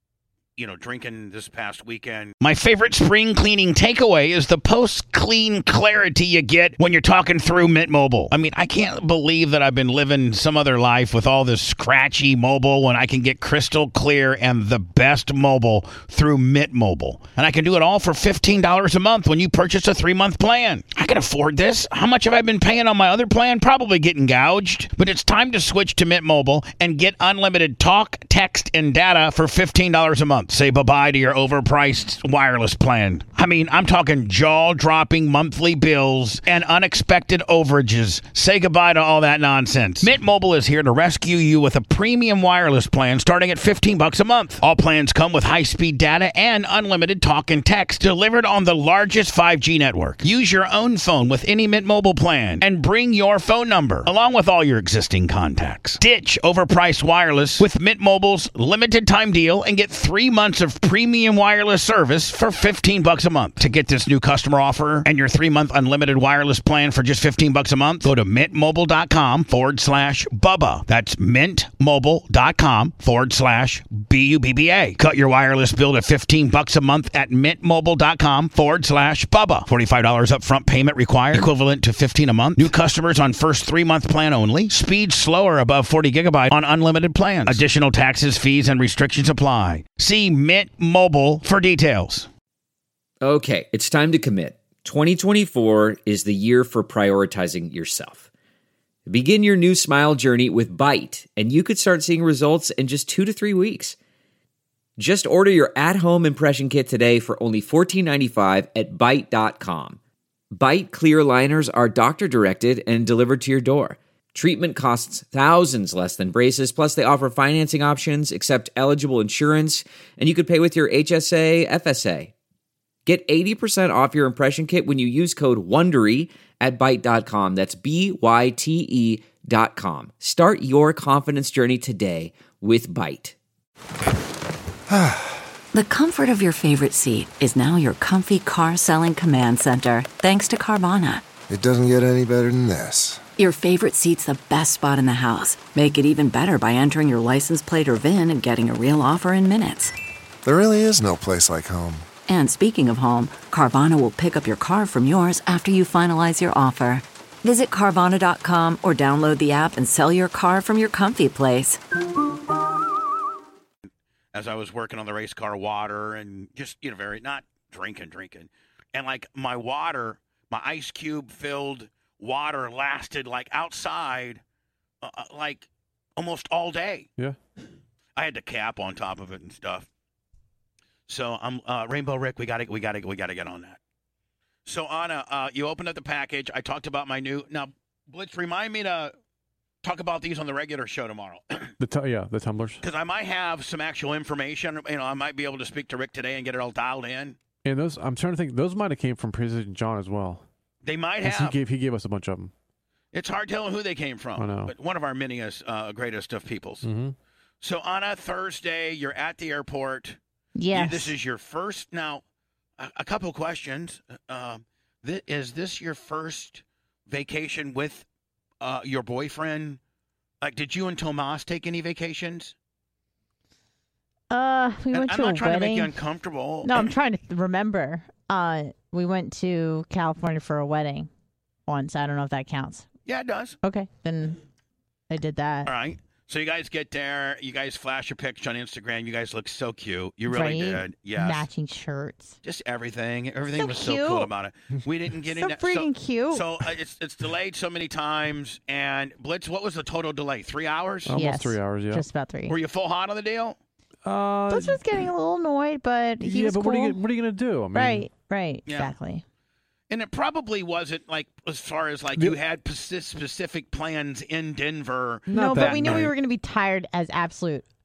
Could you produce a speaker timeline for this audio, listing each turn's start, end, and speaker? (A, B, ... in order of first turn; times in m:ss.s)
0:00.6-1:32.3 A
1:33.2-1:38.2 B
1:39.1-1:44.0 B
1:45.0-1:50.0 B
1:50.5-2:02.3 B
2:03.1-2:13.4 B
2:14.9-2:15.5 C
2:15.7-2:21.3 D
2:21.5-2:23.2 C
2:23.4-2:29.9 D
2:30.4-2:32.1 C
2:32.3-2:41.8 D
2:44.3-2:54.4 A
2:55.0-2:57.1 A
2:58.2-2:59.9 A
3:01.1-3:03.8 A
3:04.7-3:09.1 A
3:09.8-3:11.8 A
3:11.8-3:12.8 E
3:12.8-3:17.4 A
3:17.6-3:20.4 E
3:20.8-3:21.6 A
3:21.2-3:22.5 E
3:23.1-3:26.9 A
3:24.4-3:24.7 E
3:26.8-3:27.2 E
3:27.6-3:30.2 A
3:30.6-3:31.2 F
3:30.7-3:32.2 A
3:32.8-3:38.0 A
3:38.6-3:39.8 A
3:40.4-3:42.5 A
3:44.3-3:46.0 F
3:44.9-3:46.8 A
3:46.6-3:51.1 F
3:51.7-3:52.9 F
3:53.1-3:53.6 A
3:53.6-3:54.4 F
3:55.1-3:55.7 F
3:55.6-4:01.5 A
4:00.3-4:02.4 F
4:02.4-4:11.2 A
4:03.6-4:04.3 F
4:05.3-4:06.4 F
4:11.0-4:12.0 E
4:11.1-4:12.6 F
4:12.5-4:13.6 A
4:14.0-4:14.8 E
4:14.5-4:17.0 F
4:16.2-4:18.1 E
4:17.7-4:19.2 F
4:18.7-4:19.0 A
4:19.9-4:26.1 A
4:25.3-4:27.7 F
4:25.3-4:26.2 E